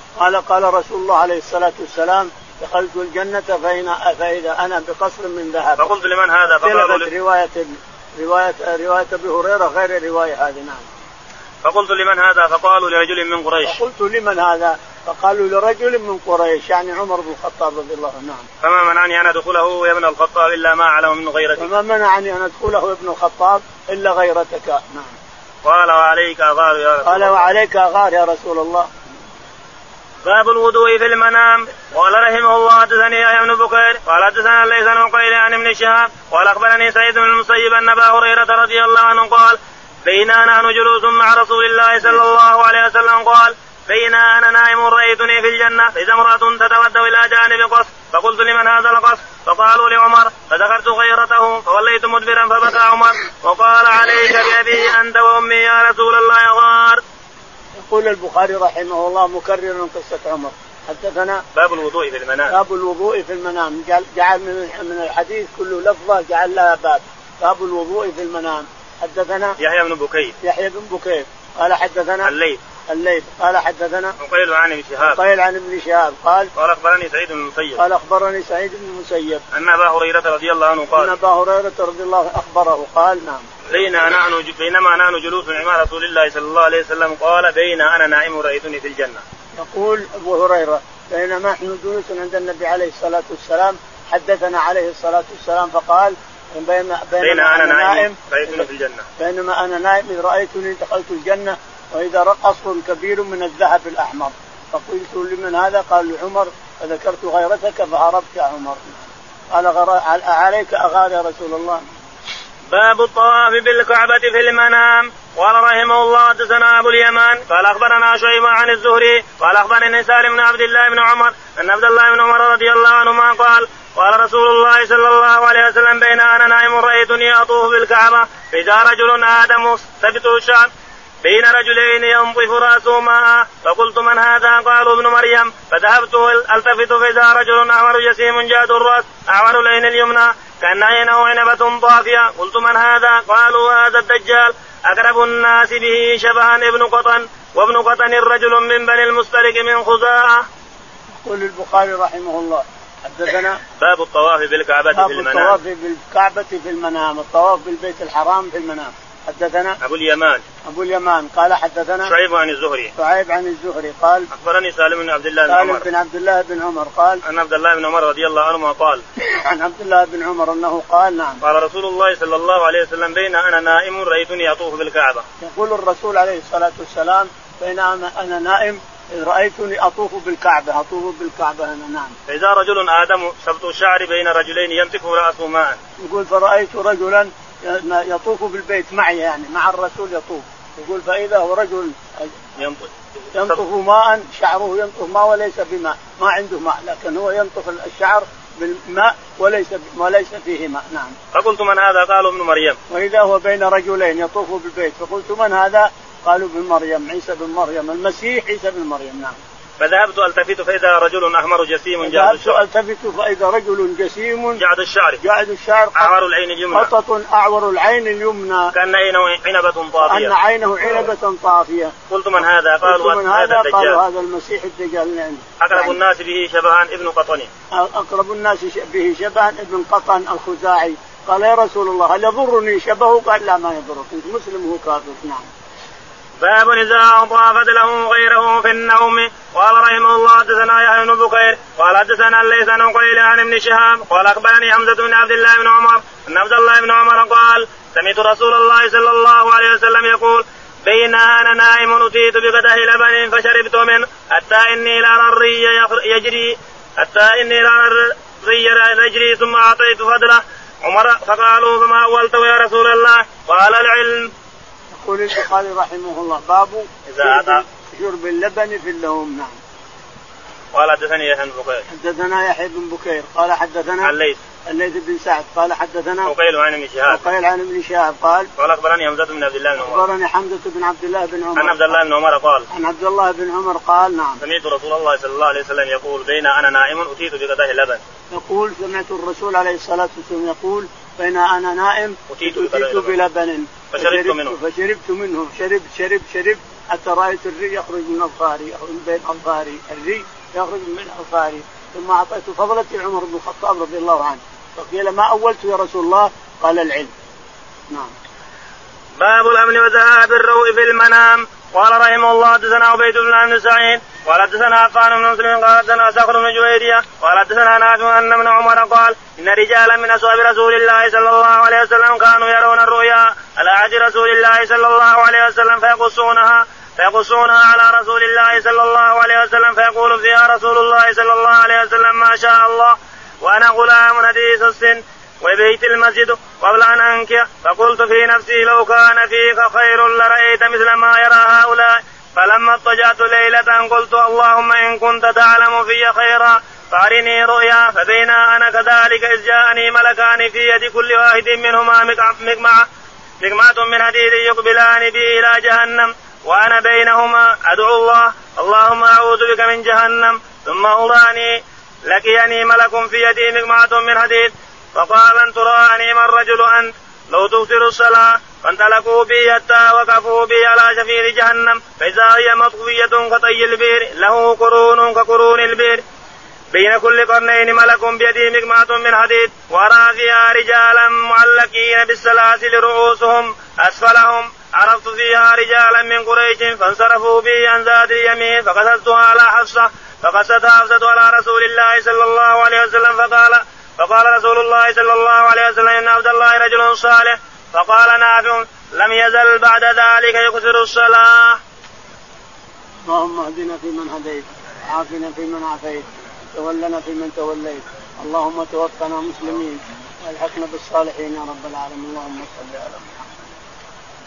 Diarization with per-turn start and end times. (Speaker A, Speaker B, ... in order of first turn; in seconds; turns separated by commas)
Speaker A: 0.2-5.9, Speaker B: 5.8-7.1, Speaker A: 6.5-10.8, Speaker B: 11.6-13.8, Speaker A: 13.6-18.5, Speaker B: 18.6-21.7, Speaker A: 21.6-25.1, Speaker B: 25.6-27.5, Speaker A: 27.0-28.9, Speaker B: 30.2-57.0, Speaker A: 57.8-61.4, Speaker B: 61.5-62.6, Speaker A: 62.5-69.6, Speaker B: 69.6-70.3, Speaker A: 70.4-72.3, Speaker B: 72.2-72.6, Speaker A: 72.9-74.2, Speaker B: 74.2-75.2, Speaker A: 75.0-76.5, Speaker B: 76.5-77.8, Speaker A: 77.8-79.4, Speaker B: 79.5-81.2, Speaker A: 80.9-83.5, Speaker B: 83.7-89.2, Speaker A: 89.6-98.7, Speaker B: 97.2-99.1, Speaker A: 99.2-111.8, Speaker B: 112.7-130.7, Speaker B: 131.2-150.4, Speaker A: 151.2-153.6, Speaker B: 153.8-155.6, Speaker A: 154.9-159.8, Speaker B: 159.8-160.4, Speaker A: 160.6-162.1, Speaker B: 162.1-162.9, Speaker A: 162.9-164.3, Speaker B: 164.3-165.8, Speaker A: 165.5-167.2, Speaker B: 167.2-169.0, Speaker A: 169.2-171.4, Speaker B: 171.4-175.2, Speaker A: 175.4-182.2, Speaker B: 182.3-185.8, Speaker A: 186.0-192.3, Speaker B: 192.6-193.6, Speaker A: 193.3-201.2, Speaker B: 201.3-202.8, Speaker A: 202.9-209.4, Speaker B: 209.8-212.6, Speaker A: 212.0-214.6, Speaker B: 214.6-215.2, Speaker A: 215.2-216.2, Speaker B: 215.9-216.9, Speaker A: 216.7-218.7, Speaker B: 218.7-220.3, Speaker A: 220.1-221.9, Speaker B: 222.1-224.0, Speaker A: 222.8-226.0, Speaker B: 225.6-227.5, Speaker A: 227.7-235.5, Speaker B: 236.4-264.3, Speaker A: 264.9-269.6, Speaker B: 267.1-267.6, Speaker B: 270.7-271.8, Speaker A: 271.9-274.1, Speaker B: 274.0-274.4, Speaker A: 274.6-276.3, Speaker B: 276.2-277.3, Speaker A: 277.1-278.5, Speaker B: 278.6-280.1, Speaker A: 279.8-282.0, Speaker B: 281.6-282.7, Speaker A: 282.7-284.4, Speaker B: 284.4-288.0, Speaker A: 288.3-307.1, Speaker B: 292.3-293.2, Speaker B: 293.9-294.6, Speaker B: 309.2-352.8, Speaker B: 353.4-376.0, Speaker B: 376.7-401.6, Speaker A: 403.1-413.3